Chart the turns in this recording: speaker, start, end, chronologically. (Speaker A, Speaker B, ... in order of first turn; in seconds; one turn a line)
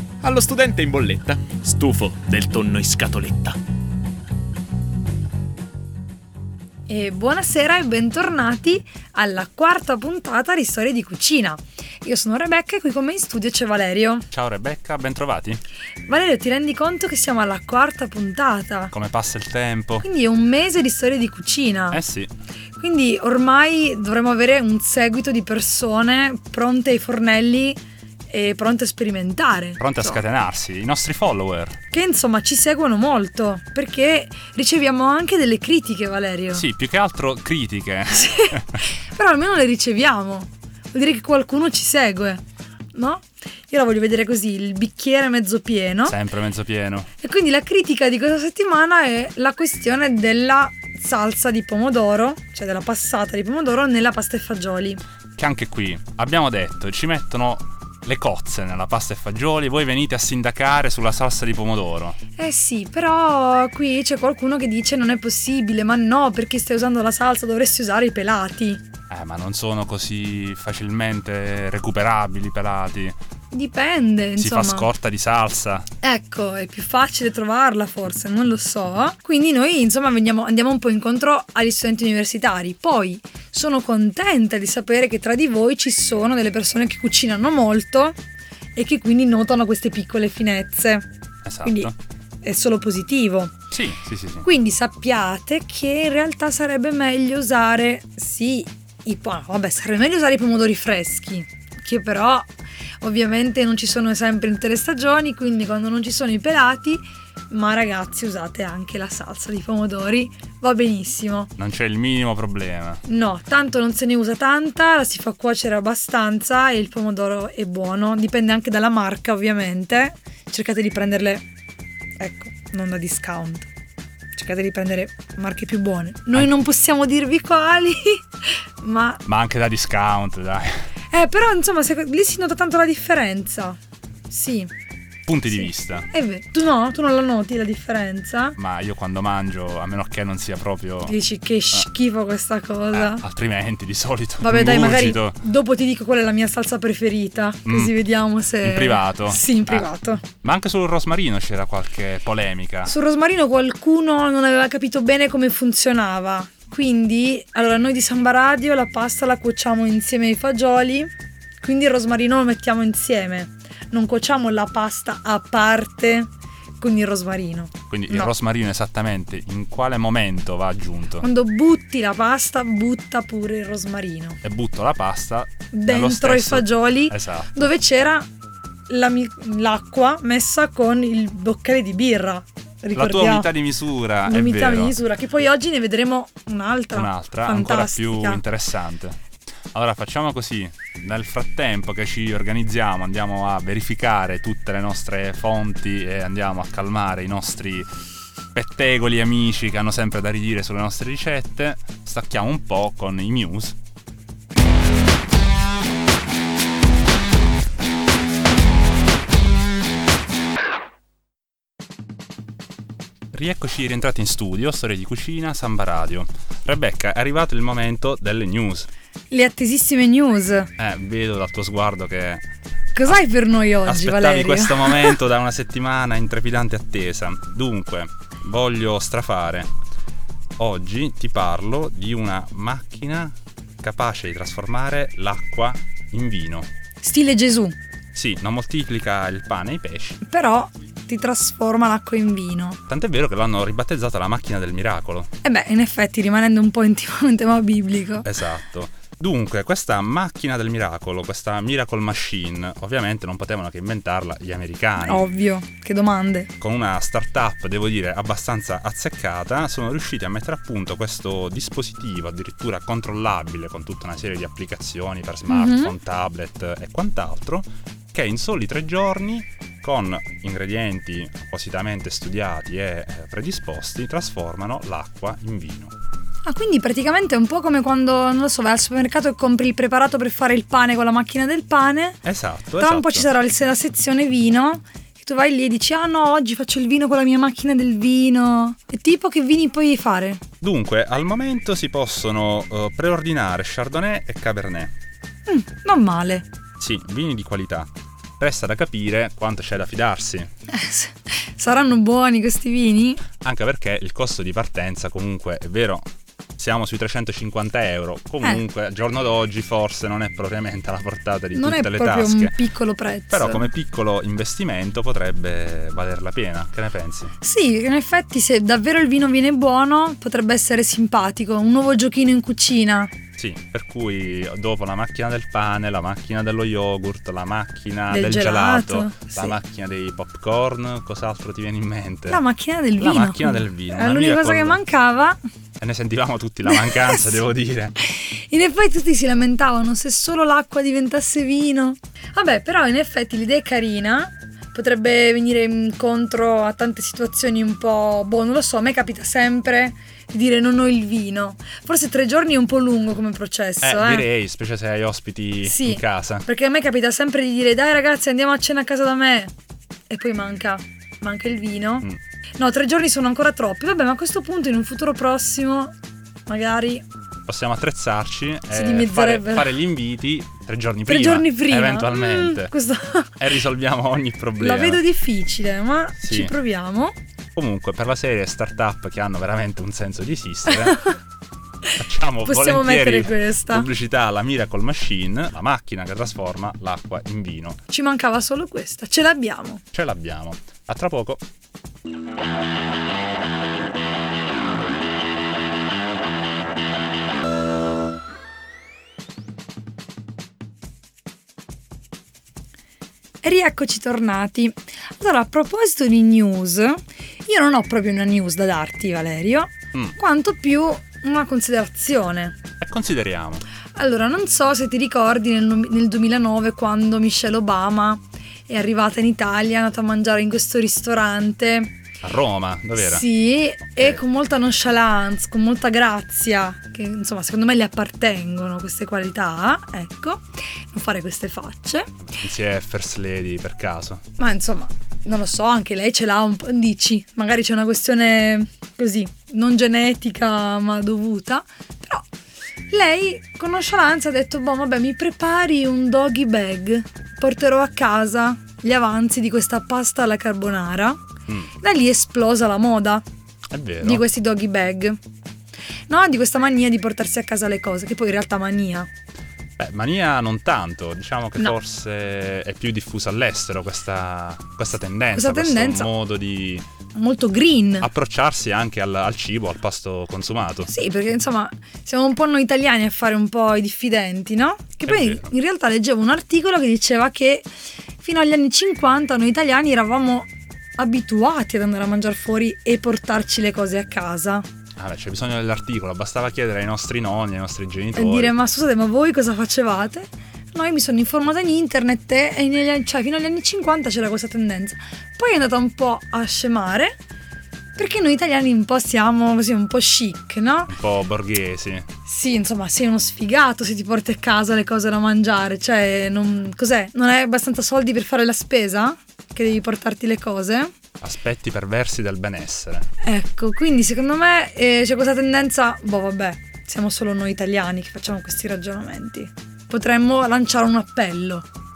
Speaker A: 0.2-3.6
Speaker B: 6.9-14.3
Speaker C: 14.3-15.6
Speaker B: 16.1-18.9
Speaker C: 18.9-20.1
Speaker B: 20.0-22.0
Speaker C: 21.9-22.3
Speaker B: 22.8-27.8
Speaker B: 28.3-30.2
Speaker C: 29.8-31.8
Speaker B: 31.9-36.7
Speaker C: 36.5-38.8
Speaker B: 38.1-42.4
Speaker B: 42.9-46.2
Speaker C: 46.1-47.1
Speaker B: 47.2-55.0
Speaker C: 55.4-62.2
Speaker B: 62.4-68.8
Speaker C: 69.1-73.2
Speaker B: 73.5-74.9
Speaker C: 74.4-75.9
Speaker B: 76.0-88.2
Speaker B: 88.8-91.1
Speaker C: 91.5-91.9
Speaker B: 91.6-91.9
Speaker B: 92.4-93.6
Speaker C: 93.7-94.5
Speaker B: 94.4-102.5
Speaker B: 103.0-111.5
Speaker C: 111.6-113.0
Speaker B: 113.1-121.5
Speaker B: 122.2-123.7
Speaker B: 124.3-129.2
Speaker C: 129.2-130.9
Speaker B: 131.1-133.8
Speaker B: 134.3-134.7
Speaker C: 135.3-136.1
Speaker B: 135.5-138.6
Speaker C: 138.6-141.2
Speaker B: 141.1-143.2
Speaker C: 142.9-145.4
Speaker B: 144.4-150.3
Speaker C: 147.7-147.9
Speaker C: 148.6-149.9
Speaker C: 150.4-153.0
Speaker B: 152.8-168.3
Speaker C: 167.9-171.2
Speaker B: 171.2-174.4
Speaker C: 174.4-177.7
Speaker B: 175.7-178.3
Speaker B: 178.9-183.5
Speaker C: 182.9-185.0
Speaker B: 184.3-188.4
Speaker C: 186.9-189.2
Speaker C: 189.7-197.9
Speaker C: 198.5-203.8
Speaker C: 213.3-218.9
Speaker B: 219.3-220.7
Speaker C: 220.8-222.5
Speaker B: 222.9-225.2
Speaker C: 223.8-229.7
Speaker C: 230.6-236.7
Speaker B: 237.0-237.8
Speaker C: 238.1-240.2
Speaker B: 240.2-242.8
Speaker C: 242.9-245.3
Speaker B: 245.4-248.3
Speaker C: 248.2-255.3
Speaker B: 255.0-256.5
Speaker C: 256.6-275.9
Speaker B: 265.5-265.9
Speaker B: 276.4-282.2
Speaker C: 282.2-283.3
Speaker B: 282.8-290.4
Speaker C: 290.6-294.9
Speaker B: 295.5-296.5
Speaker C: 296.8-300.5
Speaker B: 300.7-303.2
Speaker C: 303.4-312.6
Speaker B: 311.5-313.7
Speaker C: 313.3-317.4
Speaker B: 317.4-323.1
Speaker C: 323.4-332.4
Speaker B: 328.1-329.6
Speaker B: 332.3-335.4
Speaker C: 333.0-334.8
Speaker C: 335.8-337.9
Speaker B: 336.7-337.4
Speaker B: 338.0-354.3
Speaker C: 353.8-356.5
Speaker B: 355.6-359.5
Speaker B: 360.1-365.9
Speaker B: 366.5-367.1
Speaker C: 367.5-372.7
Speaker B: 368.7-369.7
Speaker B: 371.1-373.4
Speaker C: 373.4-375.0
Speaker B: 374.6-377.1
Speaker C: 376.2-376.5
Speaker C: 377.6-381.0
Speaker B: 380.7-381.2
Speaker B: 381.9-383.9
Speaker C: 382.0-387.8
Speaker B: 387.9-389.8
Speaker C: 389.9-391.4
Speaker B: 403.4-412.6
Speaker C: 412.8-413.6
Speaker B: 413.9-421.9
Speaker C: 422.2-423.3
Speaker B: 423.0-432.2
Speaker C: 432.3-434.2
Speaker B: 434.4-442.3
Speaker B: 442.9-451.2
Speaker B: 451.7-453.2
Speaker C: 453.7-454.2
Speaker B: 454.0-455.2
Speaker B: 456.1-459.1
Speaker C: 459.8-466.9
Speaker B: 465.3-466.1
Speaker B: 467.1-468.1
Speaker C: 468.0-470.9
Speaker B: 470.9-477.7
Speaker C: 475.1-475.5
Speaker B: 478.2-484.7
Speaker C: 485.0-488.6
Speaker B: 488.1-497.2
Speaker B: 498.0-500.9
Speaker C: 500.9-502.1
Speaker B: 502.2-510.9
Speaker C: 511.2-513.1
Speaker B: 513.2-521.7